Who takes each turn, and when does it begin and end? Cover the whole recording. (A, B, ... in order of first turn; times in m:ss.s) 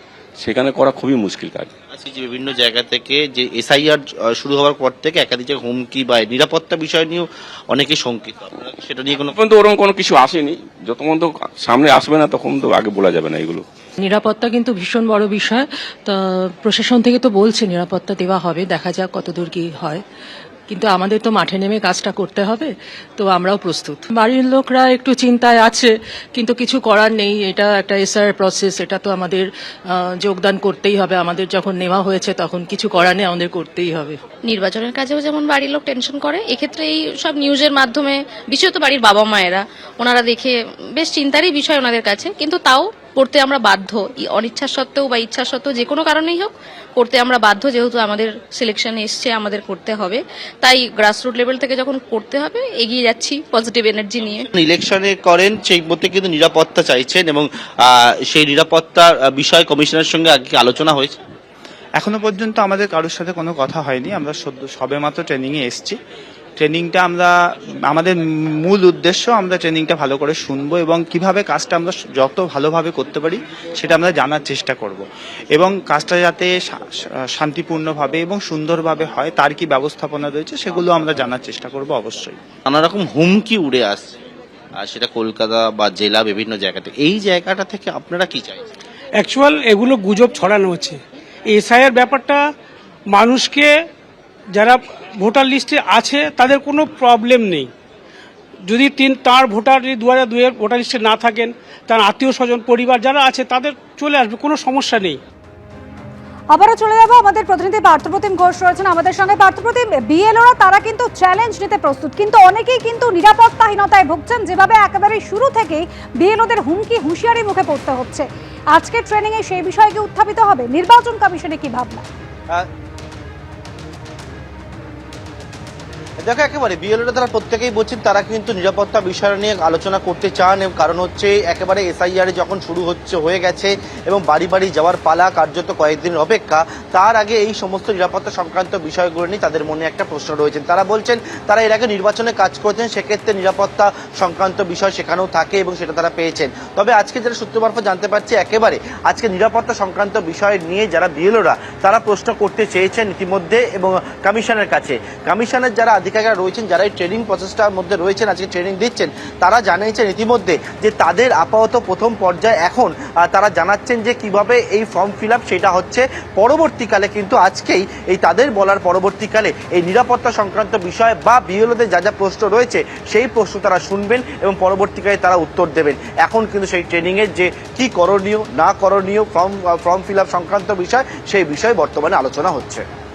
0:00.4-0:01.7 A
0:01.9-0:09.4 B
0:09.4-0:13.6 A
0:14.0-0:20.0 C
0:20.7-0:29.4 C
0:30.2-0:34.2 C
0:34.4-0:54.5 D
0:54.6-1:01.2 B
1:02.0-1:06.0 E
1:06.6-1:07.3 E
1:07.9-1:15.0 E
1:15.6-1:22.4 E
1:22.7-1:24.1 B
1:24.8-1:28.6 B
1:29.2-1:31.0 F
1:31.5-1:32.4 F
1:33.1-1:33.7 F
1:34.6-1:37.7 F
1:38.7-1:45.2 F
1:46.5-2:02.0 G
2:06.2-3:02.8 B